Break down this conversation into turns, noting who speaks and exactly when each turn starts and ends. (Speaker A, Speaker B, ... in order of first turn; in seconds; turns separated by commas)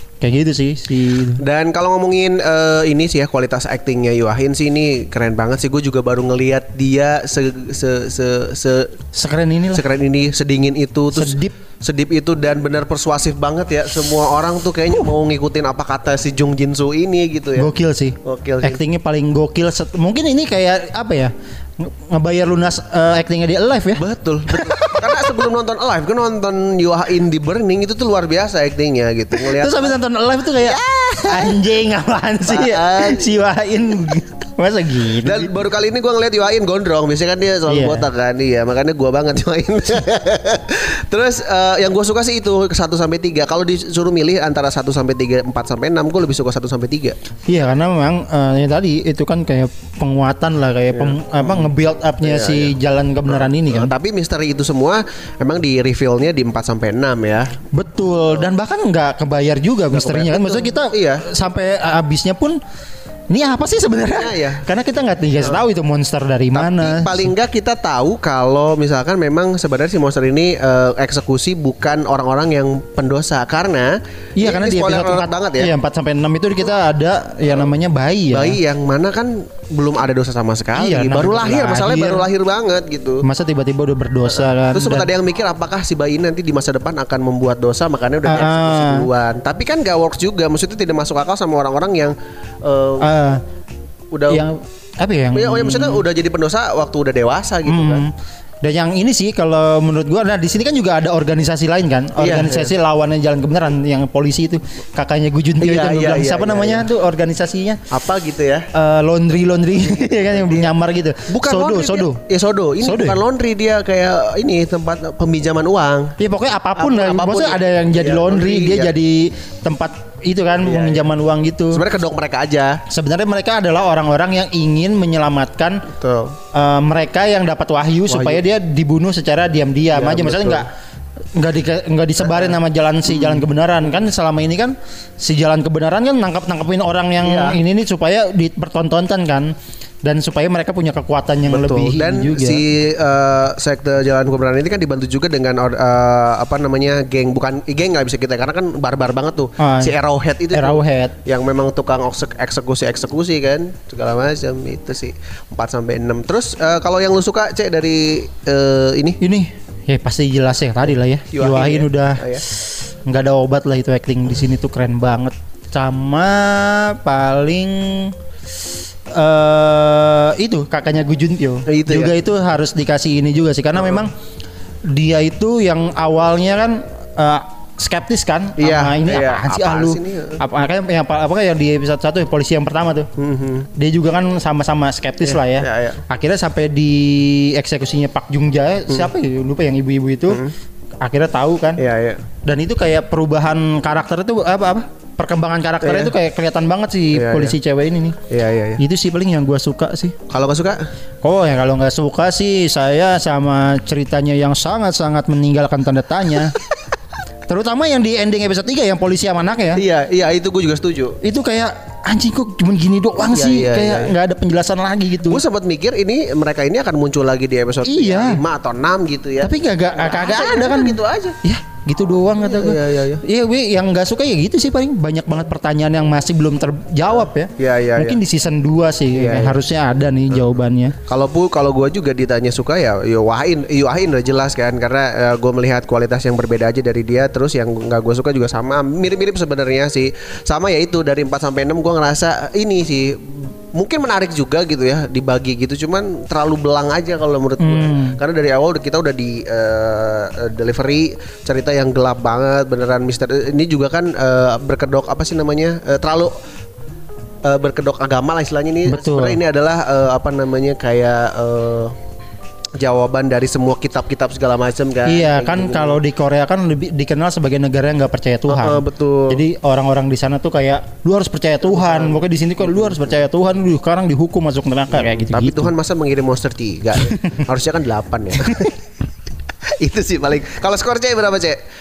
Speaker A: 0.2-1.4, Speaker B: 1.4-8.9, Speaker A: 9.1-9.8, Speaker B: 9.7-17.7, Speaker A: 11.1-11.5, Speaker A: 17.6-25.3, Speaker B: 18.2-18.8, Speaker B: 24.0-30.0, Speaker A: 29.4-35.5, Speaker B: 30.6-31.6, Speaker B: 32.5-33.3, Speaker B: 35.2-47.1, Speaker A: 37.7-38.0, Speaker A: 47.5-53.9, Speaker B: 50.9-52.7, Speaker B: 53.3-57.5, Speaker A: 57.7-62.6, Speaker B: 59.9-61.2, Speaker A: 63.3-67.3, Speaker B: 64.1-64.7, Speaker B: 66.5-75.7, Speaker A: 74.4-78.6, Speaker B: 78.3-83.2, Speaker A: 80.7-82.2, Speaker A: 83.2-85.1, Speaker B: 84.3-93.1, Speaker A: 88.2-89.1, Speaker A: 93.0-93.4, Speaker B: 94.1-94.5, Speaker A: 94.3-96.0, Speaker B: 95.3-98.1, Speaker A: 97.7-107.8, Speaker B: 102.2-102.7, Speaker B: 105.6-106.9, Speaker B: 107.9-108.6, Speaker A: 108.7-112.2, Speaker B: 109.9-110.7, Speaker B: 111.3-116.1, Speaker A: 112.8-113.2, Speaker A: 116.2-121.8, Speaker B: 116.8-118.9, Speaker B: 120.6-121.1, Speaker B: 121.7-122.8, Speaker A: 122.9-125.8, Speaker B: 125.9-126.3, Speaker A: 126.5-130.7, Speaker B: 128.1-128.4, Speaker B: 129.9-130.7, Speaker A: 131.3-142.6, Speaker B: 132.2-134.0, Speaker B: 137.2-137.6, Speaker B: 141.5-159.2, Speaker A: 149.6-149.9, Speaker A: 150.5-151.1, Speaker A: 159.2-168.1, Speaker B: 161.3-162.4, Speaker A: 169.1-174.1, Speaker B: 171.7-172.2, Speaker B: 173.7-174.0, Speaker A: 174.9-183.1, Speaker B: 178.6-180.4, Speaker B: 183.2-183.7, Speaker A: 183.8-190.4, Speaker B: 185.2-186.0, Speaker B: 190.3-190.5, Speaker A: 191.0-191.8, Speaker B: 191.8-192.2, Speaker A: 192.4-198.2, Speaker B: 195.8-196.1, Speaker B: 197.1-197.6, Speaker B: 198.3-198.8, Speaker A: 198.8-200.2, Speaker B: 200.3-200.8, Speaker A: 201.2-206.5, Speaker A: 207.5-209.8, Speaker B: 209.7-211.2, Speaker A: 211.2-215.4, Speaker B: 213.3-214.1, Speaker B: 215.2-221.4, Speaker A: 217.8-218.4, Speaker A: 219.4-230.9, Speaker B: 222.4-223.2, Speaker B: 227.1-228.2, Speaker B: 229.1-229.6, Speaker B: 230.3-256.3, Speaker A: 247.6-248.2, Speaker B: 257.4-261.9, Speaker A: 258.9-259.4, Speaker B: 262.8-266.0, Speaker A: 265.0-275.7, Speaker B: 268.5-269.4, Speaker B: 271.6-273.2, Speaker B: 274.9-278.7, Speaker A: 277.1-277.4, Speaker B: 279.8-281.6